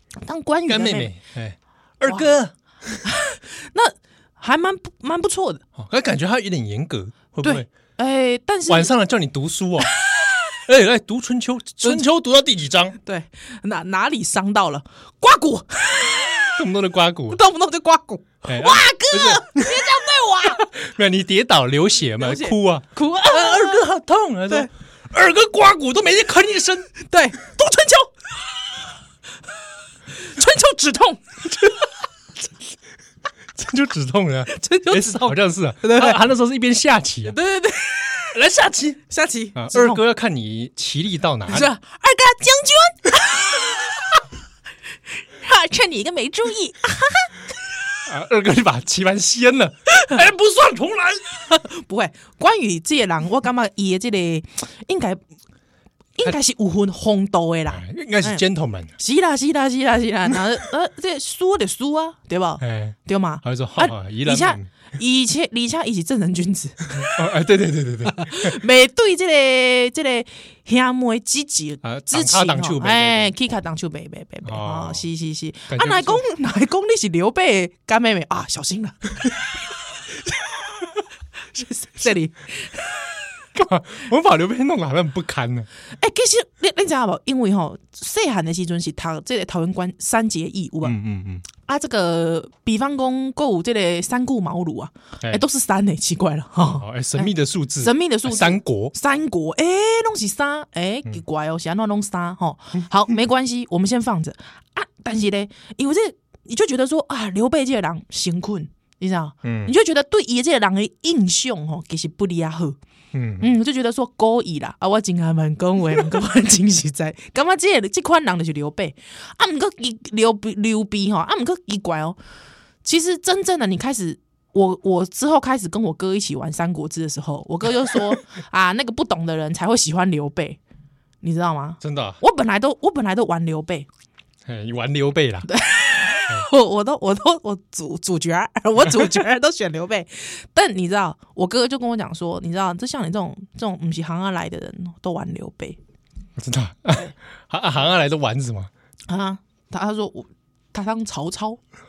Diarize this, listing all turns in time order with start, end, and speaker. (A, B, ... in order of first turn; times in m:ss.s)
0:00.2-0:01.1 A
0:00.7-0:03.0 B
0:03.0-0:05.6 A
0:05.8-0:07.7 B
0:07.4-0:08.9 A
0:08.7-0:09.9 B
0:10.6-0:13.0 B
0:13.0-0:16.6 A
0:16.6-0:17.4 B
0:17.3-0:20.7 A
0:18.4-0:27.0 B
0:22.2-0:23.8 A
0:27.0-0:28.1 A
0:30.2-0:31.7 A
0:33.5-0:37.4 B
0:34.5-0:36.2 A
0:37.2-0:38.4 A
0:38.3-0:39.0 B
0:39.1-0:40.0 A
0:39.5-0:41.7 B
0:41.5-0:44.2 A
0:45.2-0:47.4 A
0:48.1-0:51.3 B
0:51.5-0:55.2 A
0:56.2-0:58.4 A
0:57.7-0:58.9 B
0:59.0-1:07.1 A
1:02.6-1:04.7 B
1:07.0-1:08.6 B
1:08.0-1:19.3 A
1:11.8-1:13.3 B
1:14.4-1:15.0 B
1:15.7-1:16.2 B
1:21.5-1:23.0 A
1:23.5-1:25.7 B
1:25.9-1:31.0 A
1:30.8-1:31.4 B
1:31.5-1:37.3 A
1:36.7-1:38.9 B
1:37.8-1:52.8 A
1:49.4-1:49.7 B
1:53.1-1:53.5 B
1:53.4-2:02.2 A
2:02.8-2:10.6 A
2:11.2-2:13.9 A
2:11.8-2:12.2 B
2:14.4-2:15.5 B
2:15.5-2:25.8 A
2:26.4-2:28.7 B
2:29.1-2:31.6 A